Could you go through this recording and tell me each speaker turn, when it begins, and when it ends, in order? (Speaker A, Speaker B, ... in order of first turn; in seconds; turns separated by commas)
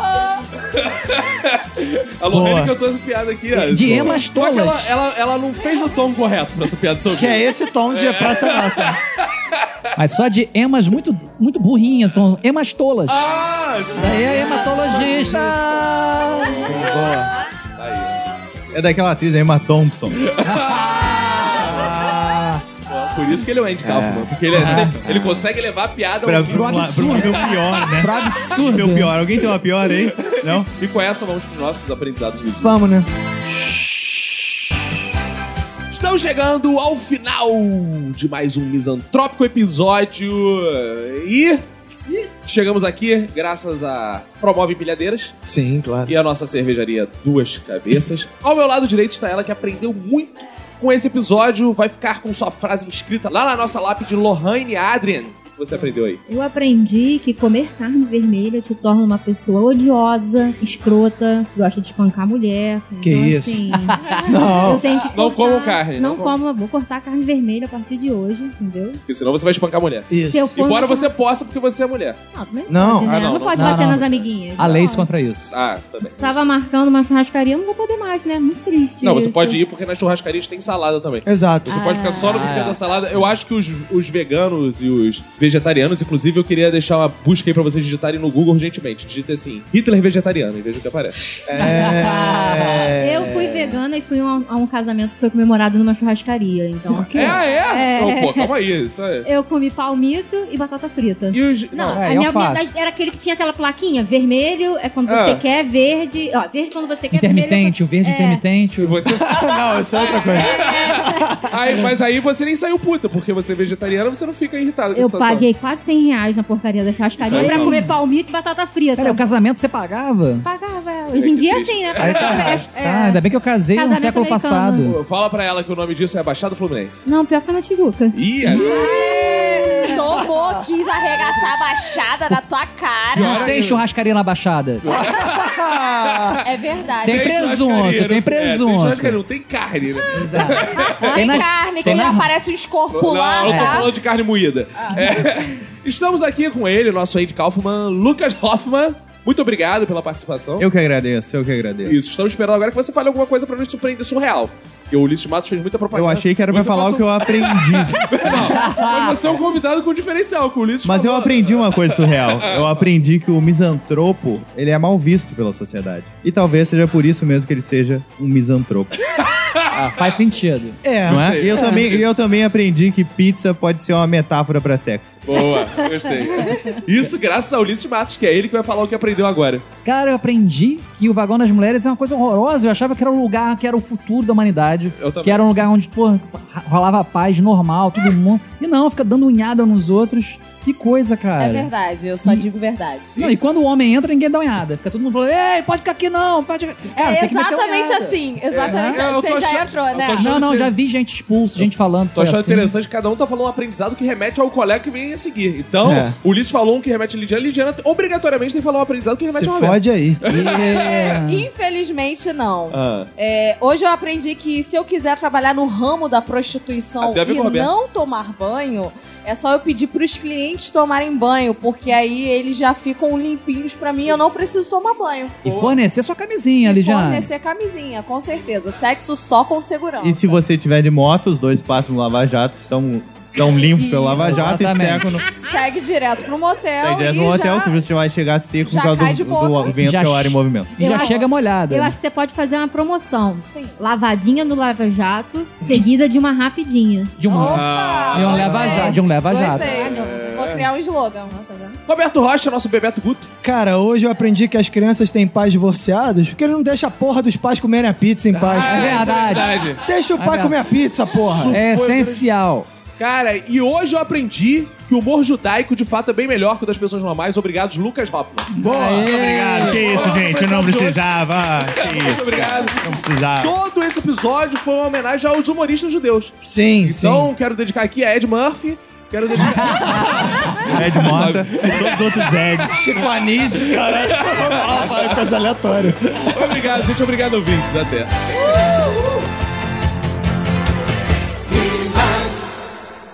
Speaker A: 0.6-9.0, Speaker B: 2.3-2.7, Speaker B: 3.5-4.2, Speaker C: 3.6-4.9, Speaker B: 7.1-9.0, Speaker C: 9.9-13.3, Speaker A: 13.1-15.9, Speaker C: 13.9-16.6, Speaker B: 14.0-15.5, Speaker A: 16.4-17.1, Speaker B: 16.6-17.3, Speaker A: 17.8-18.2, Speaker D: 18.7-20.3, Speaker A: 20.2-21.6, Speaker C: 20.4-21.6, Speaker B: 21.5-22.6, Speaker A: 22.9-27.9, Speaker B: 23.8-25.4, Speaker C: 24.6-24.9, Speaker D: 26.2-30.7, Speaker C: 26.5-29.1, Speaker A: 30.0-32.8, Speaker B: 32.6-33.1, Speaker A: 35.9-41.6, Speaker A: 42.4-45.3, Speaker B: 45.5-46.1, Speaker A: 46.1-56.2, Speaker E: 56.3-69.0, Speaker B: 63.0-63.6, Speaker F: 64.0-64.3, Speaker B: 64.3-64.9, Speaker A: 65.1-66.4, Speaker A: 69.1-72.2, Speaker B: 70.1-70.5, Speaker E: 70.2-71.1, Speaker E: 72.3-75.1, Speaker B: 72.7-73.2, Speaker A: 73.0-74.2, Speaker C: 73.5-74.0, Speaker C: 74.6-75.5, Speaker A: 75.5-76.5, Speaker E: 76.2-79.6, Speaker A: 79.0-91.3, Speaker B: 81.2-81.8, Speaker E: 81.7-82.5, Speaker C: 82.1-82.8, Speaker B: 91.5-93.8, Speaker C: 91.6-92.8, Speaker E: 93.0-98.5, Speaker C: 96.9-97.4, Speaker A: 97.1-99.3, Speaker E: 99.2-108.4, Speaker A: 101.3-102.0, Speaker C: 101.9-102.8, Speaker A: 105.0-105.5, Speaker C: 107.1-108.9, Speaker A: 108.8-115.5, Speaker B: 109.1-111.5, Speaker E: 110.1-111.5, Speaker E: 114.9-119.3, Speaker D: 117.2-117.8, Speaker B: 117.3-117.7, Speaker C: 117.4-117.9, Speaker C: 119.0-120.5, Speaker E: 120.4-124.9, Speaker A: 121.1-122.6, Speaker B: 122.0-122.7, Speaker C: 122.8-125.0, Speaker A: 124.8-127.0, Speaker E: 127.0-130.3, Speaker A: 128.1-128.9, Speaker F: 128.6-128.9, Speaker F: 129.8-133.4, Speaker A: 133.1-133.8, Speaker C: 133.2-134.9, Speaker A: 134.8-136.4, Speaker B: 134.9-136.3, Speaker F: 136.4-137.3, Speaker C: 137.0-139.2, Speaker A: 137.0-141.2, Speaker C: 140.1-142.3, Speaker E: 141.0-142.1, Speaker F: 141.1-143.9, Speaker A: 142.9-150.7, Speaker C: 143.4-143.9, Speaker F: 144.8-145.5, Speaker D: 150.6-152.0, Speaker A: 151.8-162.8, Speaker D: 155.9-158.4, Speaker D: 160.8-169.0, Speaker A: 169.2-169.6, Speaker C: 169.7-170.8, Speaker B: 170.8-172.0, Speaker D: 171.0-175.4, Speaker A: 171.1-172.0, Speaker A: 175.2-179.6, Speaker C: 179.8-191.7, Speaker A: 185.0-185.5, Speaker F: 191.4-193.3, Speaker C: 192.2-192.5, Speaker C: 193.2-199.1, Speaker F: 196.9-200.3, Speaker A: 198.5-200.7, Speaker C: 200.2-202.7, Speaker A: 201.6-211.2, Speaker B: 205.8-206.2, Speaker B: 209.3-210.2, Speaker C: 210.2-211.4, Speaker F: 210.8-225.3, Speaker A: 212.7-213.1, Speaker A: 217.0-217.7, Speaker A: 225.4-225.8, Speaker C: 225.4-227.3, Speaker F: 226.6-230.4, Speaker D: 230.0-235.2, Speaker F: 233.7-234.4, Speaker C: 234.2-235.2, Speaker E: 235.1-235.6, Speaker F: 235.3-237.8, Speaker D: 236.8-240.7, Speaker F: 238.7-239.7, Speaker C: 239.7-241.9, Speaker E: 240.8-247.2, Speaker F: 243.5-243.8, Speaker C: 247.2-249.7, Speaker F: 247.2-251.4, Speaker A: 247.4-248.6, Speaker B: 248.3-249.0, Speaker E: 248.5-250.6, Speaker A: 249.7-250.7, Speaker E: 251.3-251.8, Speaker A: 251.9-253.3, Speaker B: 253.4-259.2, Speaker A: 258.3-259.8, Speaker C: 258.6-259.5, Speaker B: 259.8-261.6, Speaker C: 260.1-260.6, Speaker A: 261.1-262.3, Speaker C: 261.5-262.7, Speaker A: 263.0-268.5, Speaker C: 268.6-269.8, Speaker B: 268.6-269.1, Speaker D: 269.0-273.5, Speaker A: 269.1-272.8, Speaker A: 273.4-282.4, Speaker B: 276.4-277.3, Speaker B: 279.4-280.1, Speaker C: 279.4-280.5, Speaker D: 280.4-282.9, Speaker B: 280.8-281.3, Speaker B: 282.7-286.6, Speaker A: 283.5-285.2, Speaker A: 286.3-288.3